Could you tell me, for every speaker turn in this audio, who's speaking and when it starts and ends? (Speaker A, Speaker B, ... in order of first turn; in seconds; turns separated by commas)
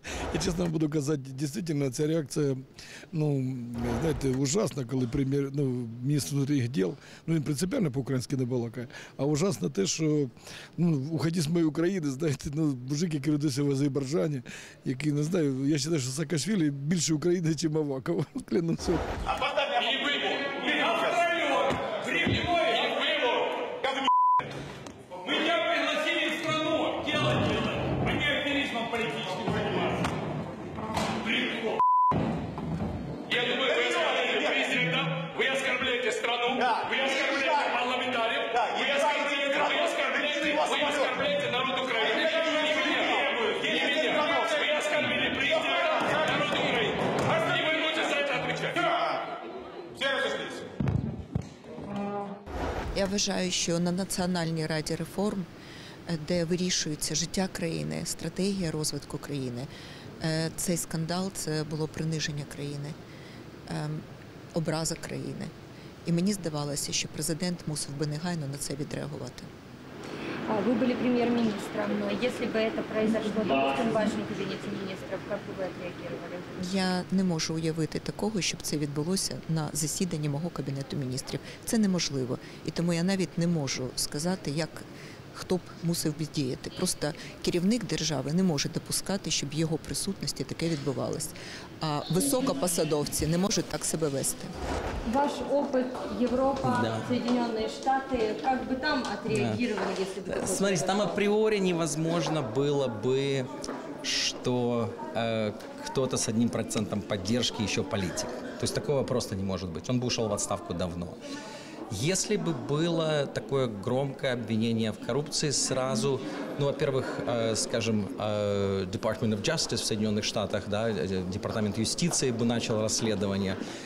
Speaker A: 0.3-19.0, Speaker B: 25.3-29.6, Speaker B: 33.3-48.9, Speaker C: 52.9-55.5, Speaker C: 56.1-59.7, Speaker C: 60.2-63.0, Speaker C: 63.7-64.0, Speaker C: 64.5-65.5, Speaker C: 66.1-69.5, Speaker D: 70.5-77.0, Speaker C: 76.6-94.5, Speaker D: 95.1-101.2, Speaker E: 96.7-97.1, Speaker E: 99.4-99.6, Speaker E: 100.3-103.5, Speaker E: 104.0-111.2, Speaker E: 111.9-123.6